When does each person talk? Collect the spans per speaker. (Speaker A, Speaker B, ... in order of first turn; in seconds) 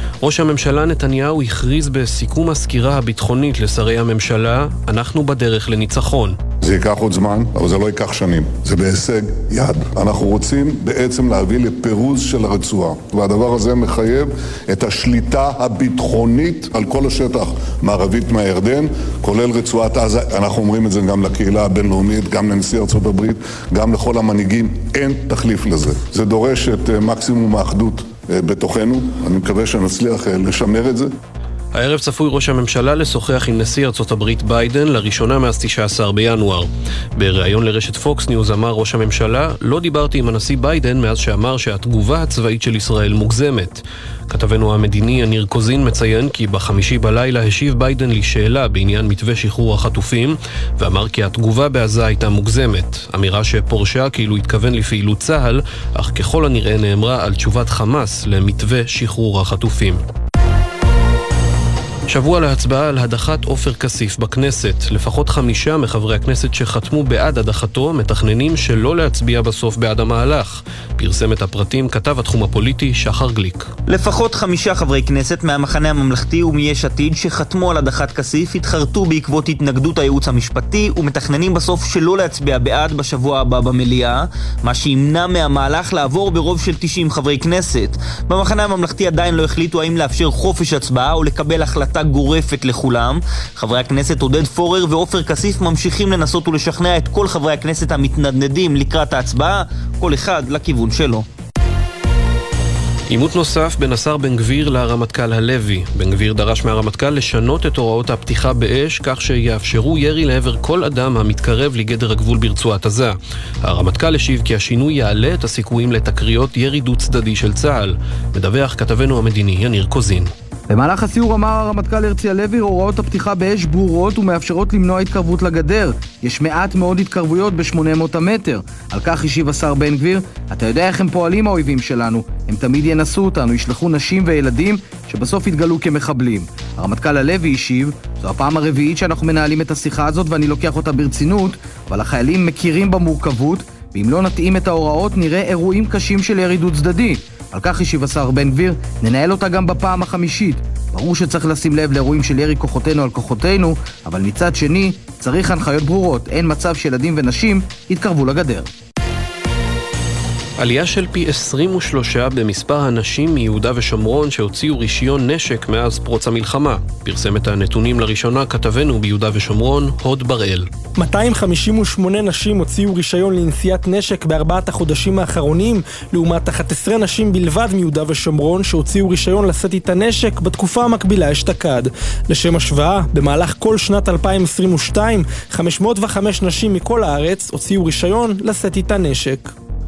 Speaker A: 0.2-6.4, 31.8-60.0, 62.1-73.7, 103.1-120.3, 160.6-170.7
Speaker B: 6.6-31.1
Speaker C: 73.9-101.2
Speaker D: 120.7-158.7
Speaker E: 171.0-189.5